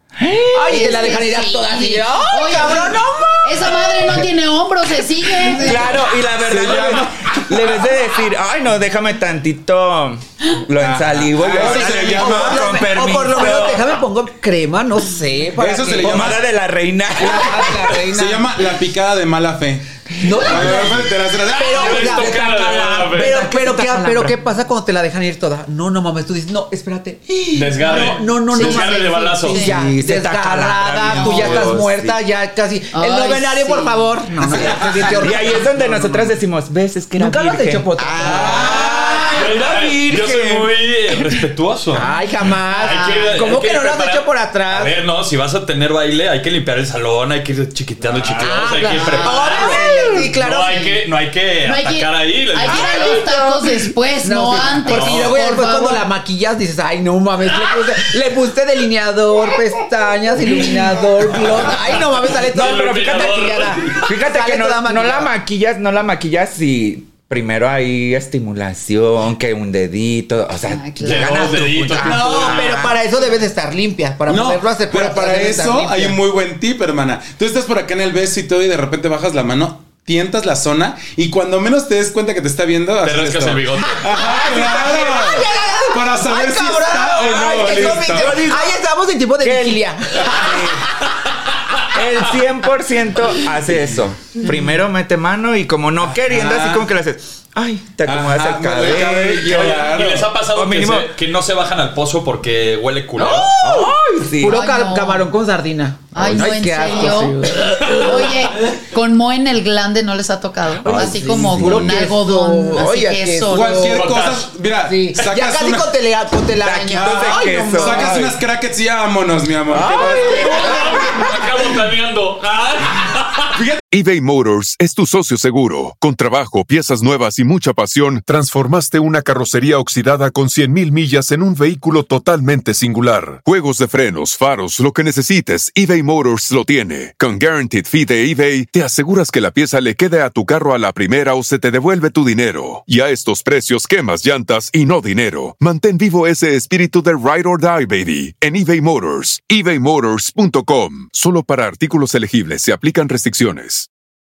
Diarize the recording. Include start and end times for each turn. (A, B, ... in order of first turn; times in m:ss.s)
0:00.2-0:01.2 A
0:00.5-0:04.2 B
0:00.7-0:05.9 C
0:05.4-0:06.0 B
0:05.6-0:14.0 A
0:06.4-0:07.7 D
0:10.8-0:12.9 D
0:11.4-0:16.4 B
0:15.5-0:16.5 D
0:16.0-0:18.0 A
0:17.2-0:18.5 B
0:18.1-0:22.2 D
0:20.2-0:36.4 B
0:20.4-0:20.9 A
0:21.6-0:23.5 E
0:23.0-0:24.4 A
0:27.5-0:29.7 E
0:28.0-0:29.7 C
0:29.5-0:32.2 A
0:32.9-0:34.1 C
0:34.5-0:41.4 A
0:37.2-0:39.4 B
0:38.2-0:42.1 E
0:41.9-0:45.0 B
0:42.7-0:53.3 E
0:42.9-0:43.4 C
0:48.3-0:51.0 B
0:48.9-0:50.1 C
0:49.6-0:50.3 A
0:51.6-0:56.0 C
0:52.6-0:53.9 A
0:54.2-1:05.3 B
0:54.9-0:55.4 E
1:02.4-1:04.1 E
1:02.4-1:13.0 A
1:10.7-1:11.4 C
1:11.0-1:12.6 E
1:12.0-1:16.2 B
1:14.3-1:28.5 D
1:23.0-1:24.1 E
1:24.1-1:31.1 B
1:24.2-1:24.9 A
1:27.2-1:28.8 A
1:29.4-1:31.0 A
1:31.9-1:40.0 A
1:36.1-1:36.9 D
1:38.0-1:40.3 D
1:39.4-1:43.5 E
1:40.5-1:41.1 A
1:43.2-1:48.5 B
1:43.5-1:44.6 A
1:44.4-1:45.3 C
1:46.1-1:53.9 C
1:50.8-1:52.0 A
1:50.8-1:54.2 B
1:53.5-1:56.0 D
1:53.9-1:54.5 E
1:54.7-1:58.2 B
1:56.6-1:58.4 A
1:56.9-2:00.9 D
1:59.7-2:01.2 A
1:59.8-2:01.3 B
2:00.1-2:03.6 E
2:03.5-2:03.8 D
2:03.9-2:33.9 F